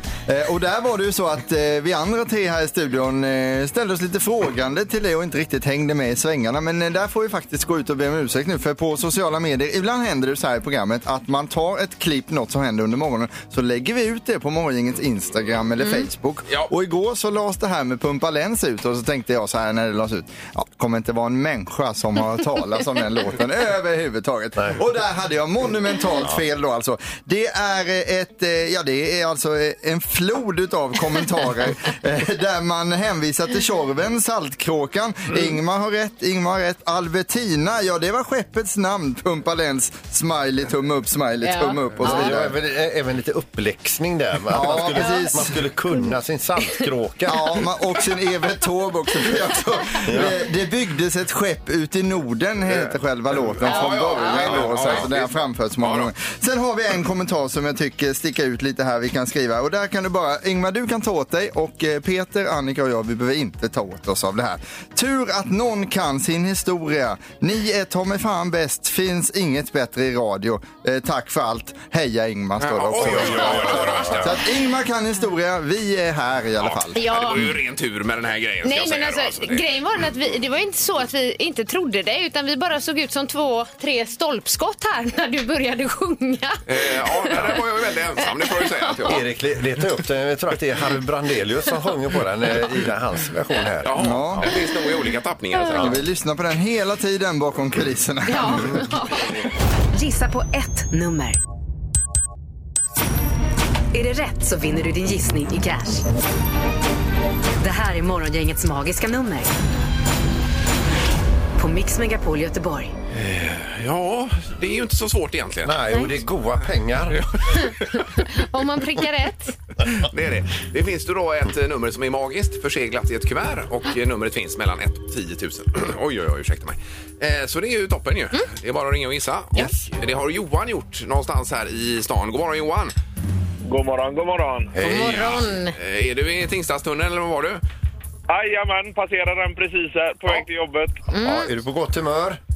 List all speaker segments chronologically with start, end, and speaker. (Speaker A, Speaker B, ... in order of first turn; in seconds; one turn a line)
Speaker A: 0.3-42.5
Speaker B: 15.8-16.1
Speaker B: 41.4-42.4
Speaker C: 42.0-47.4
Speaker A: 44.5-45.6
Speaker B: 45.0-45.3
Speaker A: 47.3-77.0
Speaker C: 50.0-50.3
Speaker D: 53.6-56.1
Speaker B: 53.6-54.6
Speaker D: 72.6-74.4
Speaker C: 73.0-74.3
Speaker D: 76.6-79.7
Speaker B: 77.0-77.5
Speaker B: 78.6-87.6
Speaker D: 86.7-89.2
Speaker B: 88.2-89.2
Speaker C: 89.1-94.5
Speaker D: 93.8-96.0
Speaker A: 94.0-94.5
Speaker A: 95.7-98.8
Speaker B: 98.3-99.4
Speaker E: 99.9-101.4
Speaker E: 103.9-106.1
Speaker E: 107.6-109.5
Speaker E: 111.6-112.9
Speaker D: 113.1-115.8
Speaker C: 115.7-117.3
Speaker D: 117.1-117.7
Speaker B: 117.6-119.6
Speaker D: 119.9-132.9
Speaker C: 129.6-129.8
Speaker F: 133.7-134.8
Speaker C: 134.8-135.4
Speaker B: 134.8-135.8
Speaker D: 134.9-137.6
Speaker F: 138.3-141.0
Speaker B: 141.1-141.5
Speaker C: 141.2-142.4